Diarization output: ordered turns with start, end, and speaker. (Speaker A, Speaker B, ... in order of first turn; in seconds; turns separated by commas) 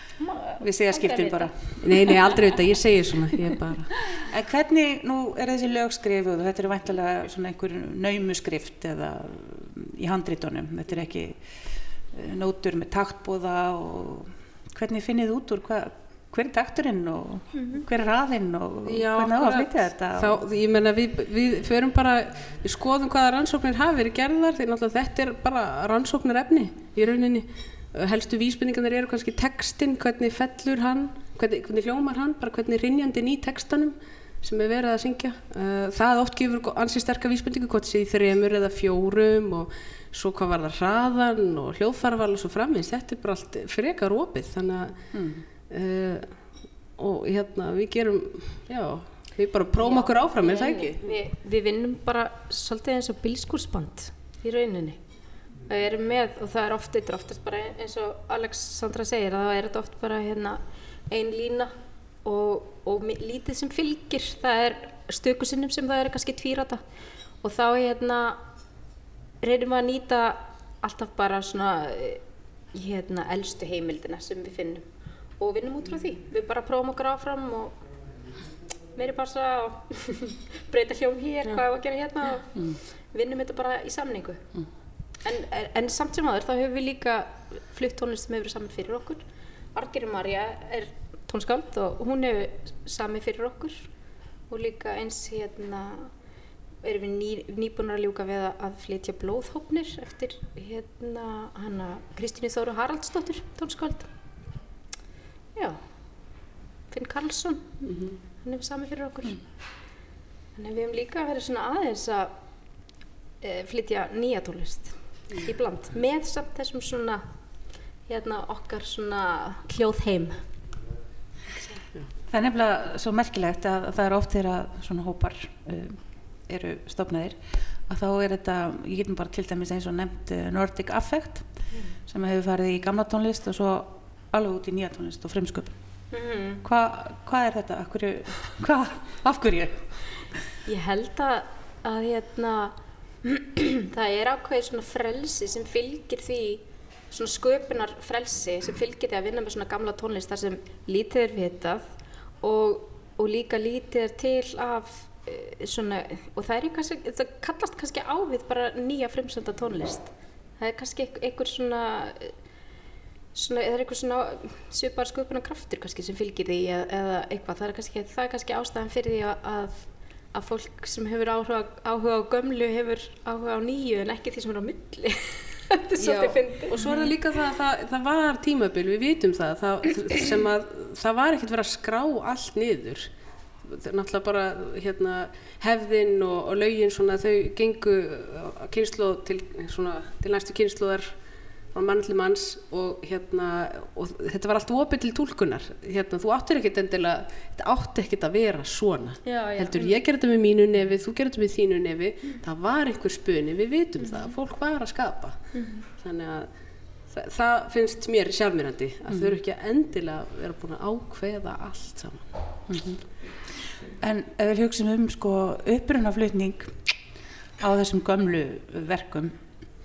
Speaker A: 0.2-1.8, Speaker B: 0.6-2.2, Speaker C: 1.8-4.0, Speaker B: 4.2-11.5, Speaker B: 12.1-20.4, Speaker A: 17.5-17.8, Speaker C: 18.9-45.0, Speaker B: 45.1-45.4, Speaker C: 45.7-51.1, Speaker A: 49.8-55.0, Speaker A: 55.6-66.8, Speaker A: 67.4-68.4, Speaker A: 69.4-77.8, Speaker A: 78.9-84.5, Speaker A: 85.2-93.9, Speaker A: 94.5-96.1, Speaker A: 96.8-104.1, Speaker A: 105.5-107.8, Speaker C: 107.8-108.2, Speaker A: 108.3-109.5, Speaker A: 110.5-112.3, Speaker A: 113.4-117.2, Speaker A: 118.0-120.5, Speaker B: 122.3-135.8, Speaker A: 136.1-136.6, Speaker B: 136.6-139.9, Speaker A: 140.6-162.3, Speaker A: 163.3-176.8, Speaker C: 176.0-183.1, Speaker C: 183.6-191.2, Speaker C: 191.7-212.3, Speaker A: 199.2-200.0, Speaker A: 204.0-204.3, Speaker A: 205.5-205.8, Speaker B: 209.1-209.3, Speaker B: 212.7-216.9, Speaker B: 217.6-219.3